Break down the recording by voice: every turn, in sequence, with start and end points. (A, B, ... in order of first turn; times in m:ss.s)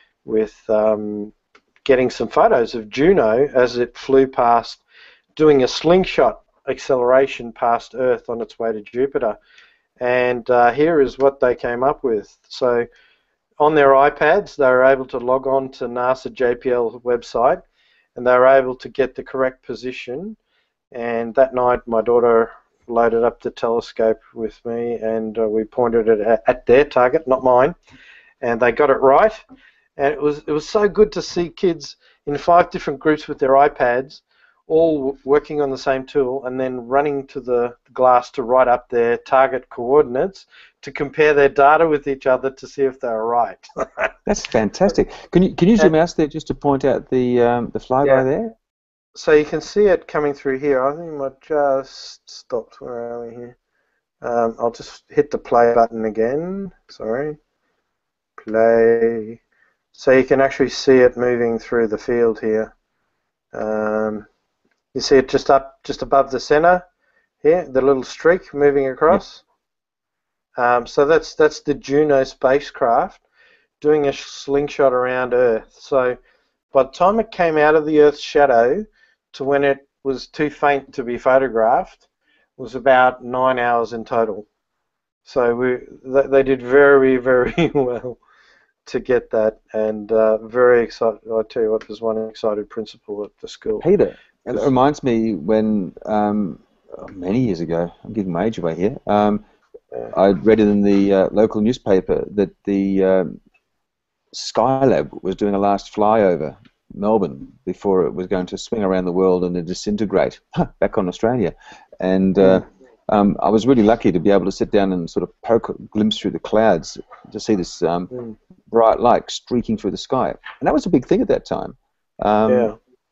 0:00.2-0:01.3 A
0:01.8-0:04.8 A
0:05.4-0:09.4 A
0:10.0-0:12.8 A
0:13.6-0:17.6 A
0:18.2-0:20.4 A
0:20.9-0:27.8 A
0:28.4-0:29.4 A
0:30.0-0:44.1 A
0:44.2-0:48.5 B
0:49.1-0:53.6 A
0:54.2-0:57.4 A
0:58.4-0:59.4 A
0:59.9-1:02.7 A
1:03.5-1:04.3 A
1:04.9-1:06.8 A
1:07.4-1:09.4 A
1:10.6-1:13.2 A
1:13.8-1:16.2 A
1:16.7-1:22.0 A
1:22.6-1:24.5 A
1:25.2-1:28.2 A
1:28.8-1:33.8 A
1:33.8-1:39.4 B
1:40.1-1:43.4 B
1:44.3-1:58.1 B
1:52.4-1:52.6 A
1:58.7-2:02.7 B
2:02.5-2:02.8 A